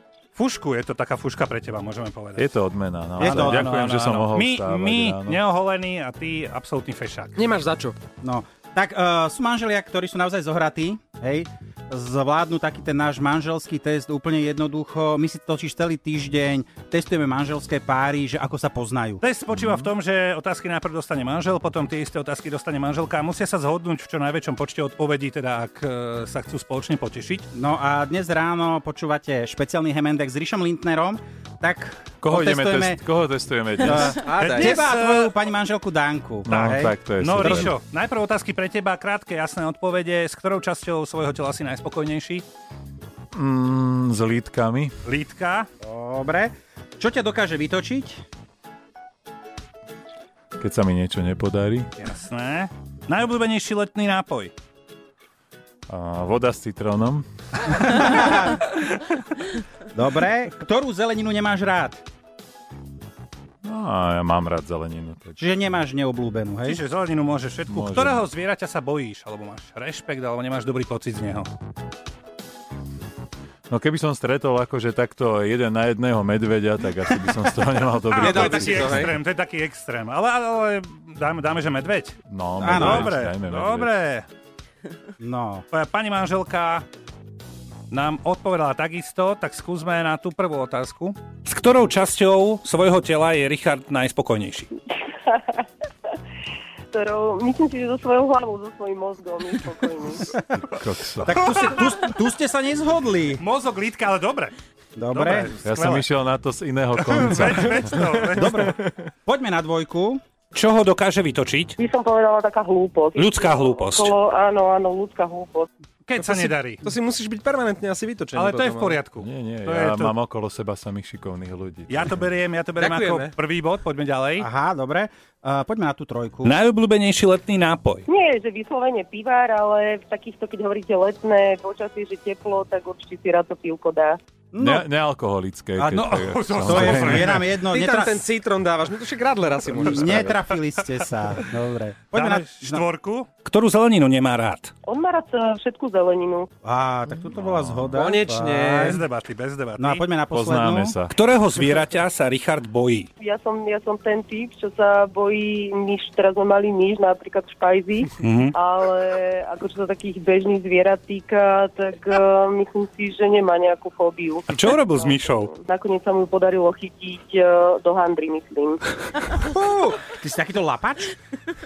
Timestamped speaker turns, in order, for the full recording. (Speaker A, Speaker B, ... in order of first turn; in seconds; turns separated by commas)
Speaker A: 0.3-2.5, Speaker B: 2.4-5.4, Speaker C: 3.2-3.8, Speaker A: 3.2-7.3, Speaker D: 7.3-8.0, Speaker C: 8.2-19.2, Speaker A: 19.2-27.5, Speaker B: 19.5-19.9, Speaker C: 27.5-33.0, Speaker B: 32.2-34.2, Speaker C: 33.8-37.7, Speaker D: 34.2-34.8, Speaker A: 34.3-35.3, Speaker B: 36.5-37.8, Speaker A: 36.5-42.4, Speaker B: 43.3-45.0, Speaker A: 45.0-45.7, Speaker C: 45.8-48.2, Speaker B: 50.6-51.9, Speaker A: 52.0-54.5, Speaker B: 55.9-57.2, Speaker C: 57.9-58.6, Speaker C: 59.9-62.0, Speaker B: 63.6-65.3, Speaker C: 65.4-66.8, Speaker A: 66.6-71.5, Speaker B: 67.7-68.2, Speaker B: 73.7-79.1, Speaker A: 78.1-84.2, Speaker D: 78.2-79.1, Speaker B: 82.3-83.9, Speaker C: 82.6-83.2, Speaker C: 85.2-85.7, Speaker A: 85.7-86.8, Speaker A: 87.9-94.7, Speaker E: 95.2-95.6, Speaker E: 96.9-100.2, Speaker B: 100.7-101.4, Speaker C: 101.2-103.4, Speaker A: 101.4-101.8, Speaker A: 103.4-104.5, Speaker C: 105.0-105.5, Speaker A: 105.1-106.0, Speaker B: 105.6-108.1, Speaker A: 107.0-108.8, Speaker C: 108.3-110.2, Speaker A: 110.5-111.8, Speaker E: 111.8-115.7, Speaker A: 113.2-114.1, Speaker A: 116.1-116.8, Speaker D: 116.2-119.0, Speaker A: 118.3-120.1, Speaker B: 119.2-122.3, Speaker A: 121.9-124.5, Speaker D: 122.8-123.3, Speaker C: 124.4-126.6, Speaker A: 126.4-128.1, Speaker E: 128.1-134.2, Speaker C: 134.5-134.8, Speaker B: 134.6-137.3, Speaker C: 135.8-138.2, Speaker A: 135.9-137.4, Speaker D: 137.7-140.4, Speaker C: 139.8-142.8, Speaker A: 142.1-144.7, Speaker E: 144.8-146.5, Speaker C: 146.6-149.0, Speaker B: 147.3-147.9, Speaker D: 147.9-149.0, Speaker A: 148.8-150.1, Speaker C: 149.8-151.0, Speaker B: 150.3-151.1, Speaker A: 151.1-153.1, Speaker E: 153.2-168.8, Speaker A: 158.2-158.5, Speaker A: 164.5-165.5, Speaker C: 169.4-171.1